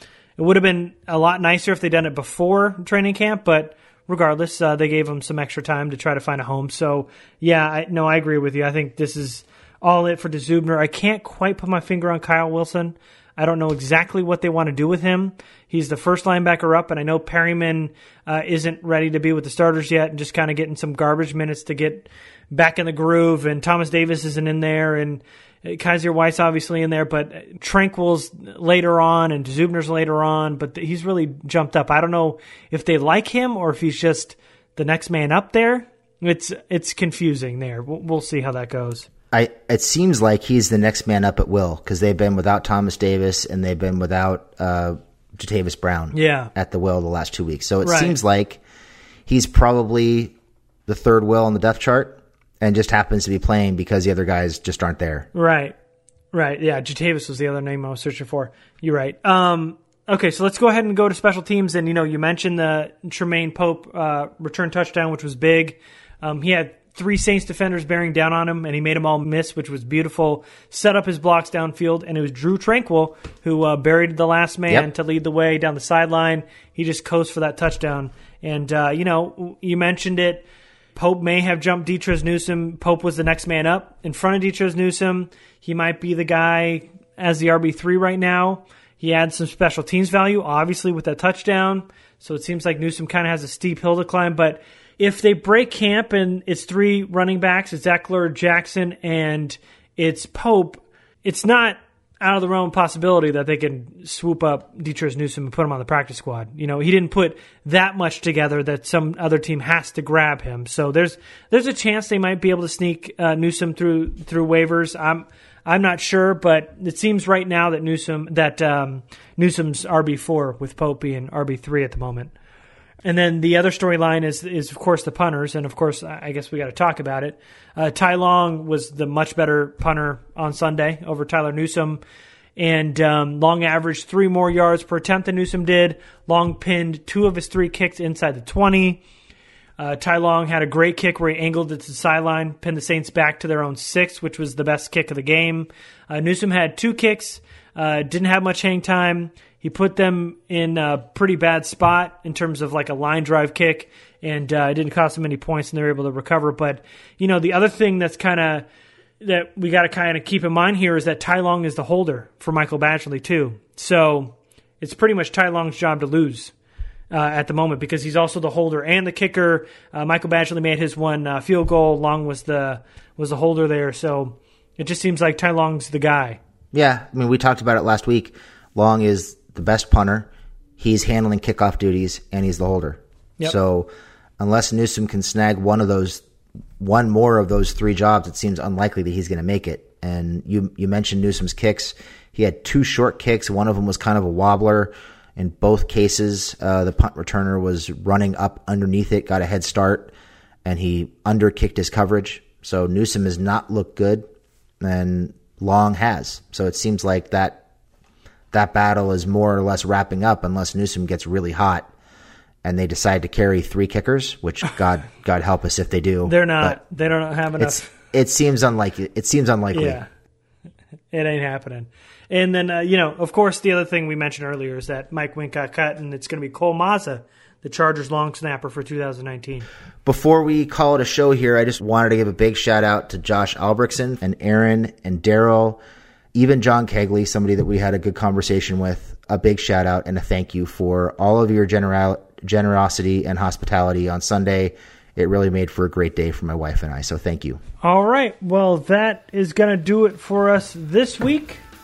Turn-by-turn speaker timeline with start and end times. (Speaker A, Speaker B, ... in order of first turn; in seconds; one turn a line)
Speaker A: 0.4-39.1
Speaker B: 39.3-48.6
Speaker A: 46.1-46.5
Speaker A: 47.8-48.1
Speaker B: 49.2-50.3
Speaker B: 50.9-55.3
Speaker A: 55.3-55.8
Speaker A: 56.3-122.3
Speaker A: 123.0-132.0
Speaker A: 132.6-139.0
Speaker A: 139.8-158.6
Speaker A: 159.2-166.5
Speaker A: 167.1-176.4
Speaker B: 176.7-186.2
Speaker B: 186.8-200.1
Speaker B: 200.6-204.2
Speaker B: 204.8-207.6
Speaker B: 208.5-211.9
Speaker B: 212.6-216.8
Speaker A: 216.2-217.8
Speaker B: 217.6-220.0
Speaker A: 219.7-220.1
Speaker A: 221.1-229.7
Speaker B: 230.0-235.8
Speaker B: 236.3-247.6
Speaker A: 247.8-251.6